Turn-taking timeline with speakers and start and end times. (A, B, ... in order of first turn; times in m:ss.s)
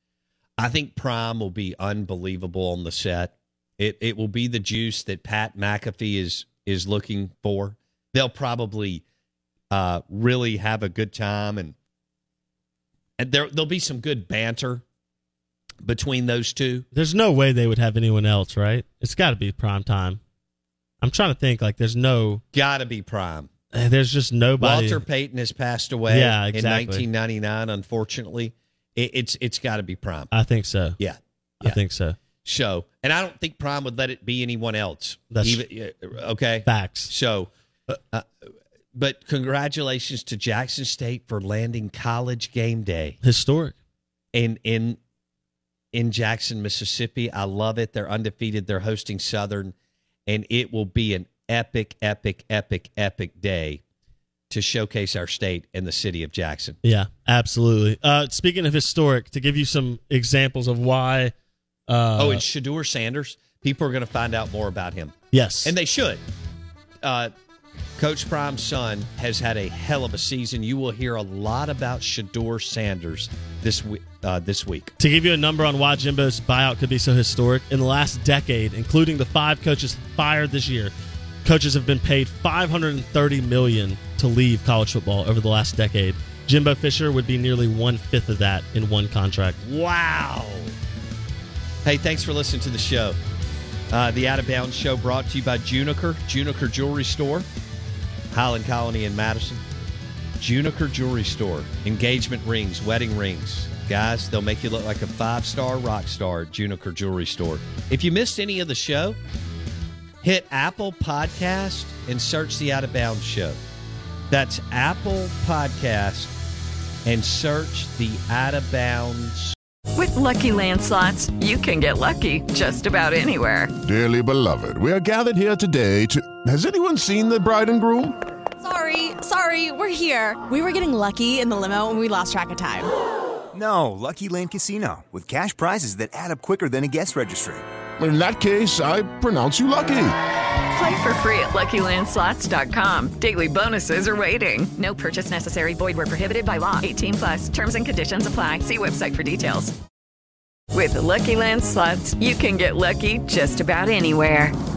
0:00.6-0:09.0 A
0:09.7-0:11.8 A
0:13.2-0:14.8 A
0:15.8-0:16.9 A
0:16.9-0:20.2 B
0:21.0-0:22.4 B
0:22.5-0:23.5 A
0:23.7-0:25.0 B
0:24.6-0:30.3 A
0:26.1-0:27.1 B
0:30.3-0:31.0 B
0:31.0-0:31.8 A
0:31.6-0:32.2 B
0:32.4-0:37.5 A
0:35.3-0:35.6 B
0:36.7-0:37.1 B
0:39.0-0:43.2 A
0:43.2-0:43.8 B
0:44.3-0:45.0 A
0:45.9-0:49.7 A
0:50.3-0:53.8 A
0:54.5-0:56.8 A
0:56.8-1:01.3 B
1:01.9-1:02.4 B
1:02.2-1:06.2 A
1:05.3-1:05.8 B
1:07.0-1:07.3 A
1:08.0-1:14.9 A
1:15.0-1:20.9 B
1:21.4-1:29.6 B
1:29.6-1:30.7 A
1:31.8-1:33.2 A
1:33.9-1:37.5 A
1:38.3-1:39.6 A
1:40.4-1:49.2 A
1:50.2-1:53.6 A
1:54.3-1:56.3 A
1:57.0-1:59.6 A
2:00.0-2:03.7 C
2:03.8-2:08.2 D
2:08.6-2:12.9 E
2:13.5-2:17.6 F
2:18.0-2:20.2 D
2:20.7-2:29.7 C
2:30.7-2:34.6 C